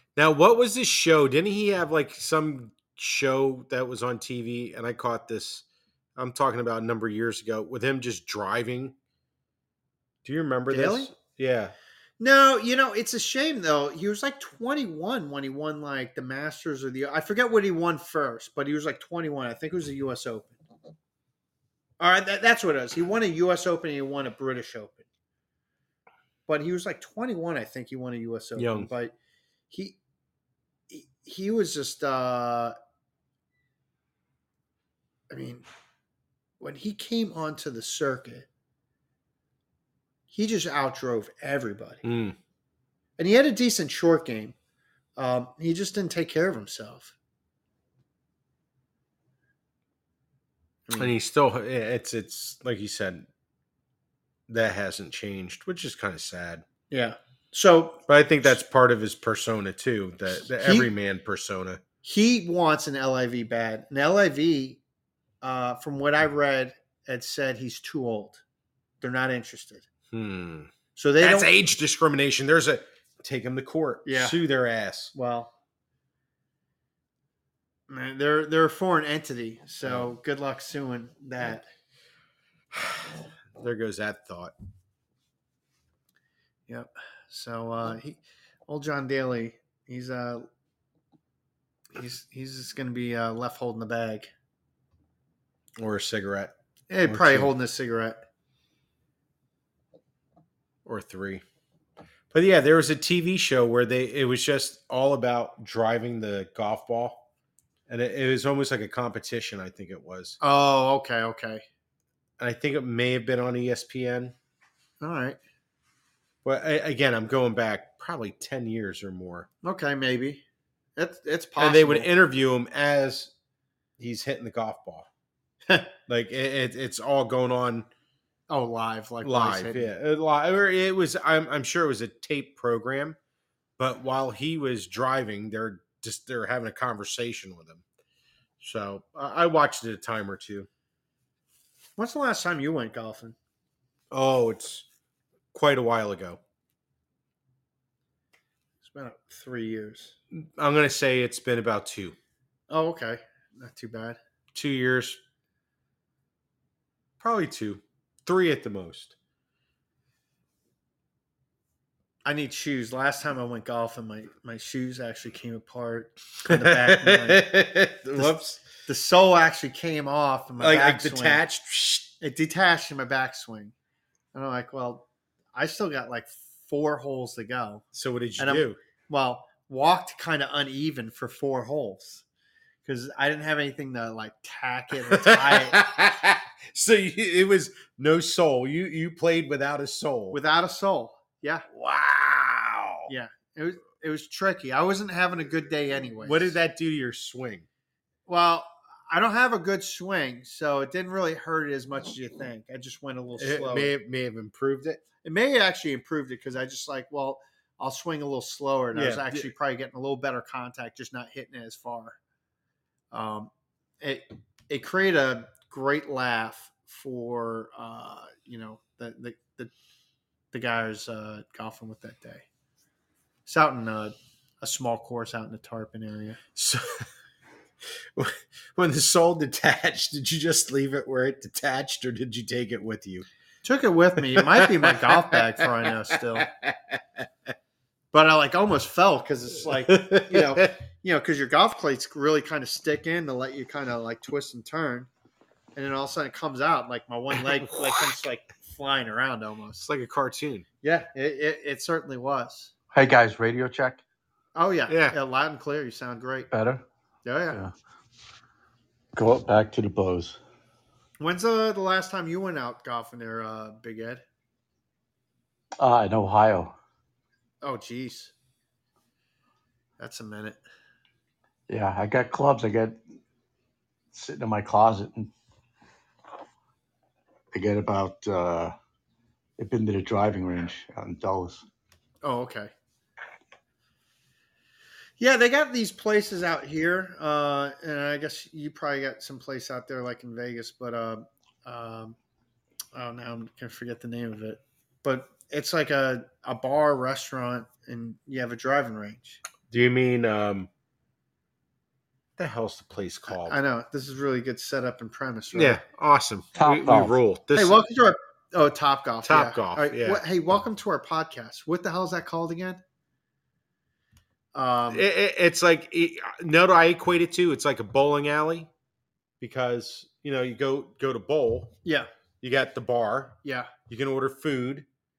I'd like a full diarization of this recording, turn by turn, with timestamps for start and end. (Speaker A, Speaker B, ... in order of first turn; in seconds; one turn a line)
Speaker A: 0.1-5.6
Speaker A: 6.2-8.9
Speaker A: 10.2-11.7
Speaker B: 10.7-11.1
Speaker B: 12.2-20.6
Speaker B: 22.0-25.0
Speaker B: 26.5-29.1
Speaker A: 28.6-28.9
Speaker B: 29.7-30.0
Speaker B: 30.9-32.7
Speaker B: 35.3-35.6
Speaker B: 36.6-38.5
Speaker B: 40.3-42.0
Speaker A: 42.0-42.4
Speaker B: 43.2-44.5
Speaker B: 45.2-47.1
Speaker B: 50.9-51.1
Speaker A: 51.0-53.3
Speaker A: 54.5-56.6
Speaker B: 56.9-58.0
Speaker A: 58.1-61.8
Speaker B: 60.6-60.9
Speaker B: 62.0-64.8
Speaker B: 65.4-68.4
Speaker B: 69.0-69.9
Speaker A: 70.1-75.1
Speaker B: 70.9-71.5
Speaker B: 74.0-74.4
Speaker B: 75.1-75.5
Speaker B: 77.9-81.7
Speaker A: 79.8-80.1
Speaker A: 82.7-84.5
Speaker B: 86.7-90.5
Speaker B: 91.9-94.3
Speaker A: 95.8-97.5
Speaker B: 96.9-98.2
Speaker A: 100.8-101.4
Speaker A: 102.3-107.2
Speaker A: 107.9-110.4
Speaker B: 110.4-111.6
Speaker A: 112.4-114.3
Speaker B: 115.0-115.4
Speaker A: 116.4-119.5
Speaker B: 119.6-120.4
Speaker B: 121.0-122.1
Speaker A: 121.6-123.3
Speaker A: 124.0-125.1
Speaker A: 126.1-127.9
Speaker B: 128.5-129.9
Speaker A: 129.2-133.2
Speaker A: 133.8-137.8
Speaker A: 138.6-140.7
Speaker B: 142.0-143.3
Speaker A: 144.1-144.8
Speaker A: 145.5-146.4
Speaker B: 148.8-150.2
Speaker A: 150.3-152.2
Speaker B: 152.7-154.2
Speaker A: 154.5-155.2
Speaker A: 157.2-159.1
Speaker B: 162.2-167.5
Speaker A: 166.5-168.6
Speaker B: 168.2-171.4
Speaker A: 170.6-172.1
Speaker B: 172.2-173.7
Speaker B: 174.3-177.8
Speaker A: 177.9-178.8
Speaker B: 178.4-182.2
Speaker B: 182.8-185.9
Speaker A: 185.1-190.4
Speaker B: 190.3-191.7
Speaker A: 191.7-193.1
Speaker B: 193.1-196.6
Speaker A: 196.2-197.7
Speaker B: 198.3-203.9
Speaker A: 203.4-205.0
Speaker B: 205.2-212.2
Speaker A: 208.9-209.5
Speaker B: 213.1-219.7
Speaker B: 220.5-222.4
Speaker B: 223.4-226.4
Speaker A: 226.6-226.8
Speaker A: 228.1-233.2
Speaker B: 233.6-236.5
Speaker A: 234.3-237.2
Speaker B: 238.1-245.1
Speaker A: 239.7-240.7
Speaker B: 245.8-249.8
Speaker A: 249.8-250.7
Speaker B: 250.8-252.7
Speaker C: 252.9-254.0
Speaker B: 254.5-256.5
Speaker A: 254.9-255.2
Speaker C: 256.5-256.8
Speaker B: 257.2-257.6
Speaker C: 259.1-260.4
Speaker B: 261.2-264.2
Speaker C: 265.8-266.7
Speaker B: 267.6-268.3
Speaker B: 270.0-270.6
Speaker C: 271.7-273.0
Speaker C: 274.1-275.3
Speaker C: 277.5-278.7
Speaker C: 279.6-281.6
Speaker B: 282.2-282.7
Speaker B: 285.2-292.1
Speaker B: 292.9-299.4
Speaker A: 299.7-300.7
Speaker A: 302.4-303.6
Speaker B: 303.3-305.8
Speaker A: 305.5-307.8
Speaker C: 306.6-307.1
Speaker B: 307.5-312.8
Speaker A: 309.2-310.2
Speaker B: 314.5-315.1
Speaker A: 314.9-318.7
Speaker A: 319.4-321.7
Speaker A: 322.4-323.4
Speaker B: 323.4-323.7
Speaker A: 323.9-324.9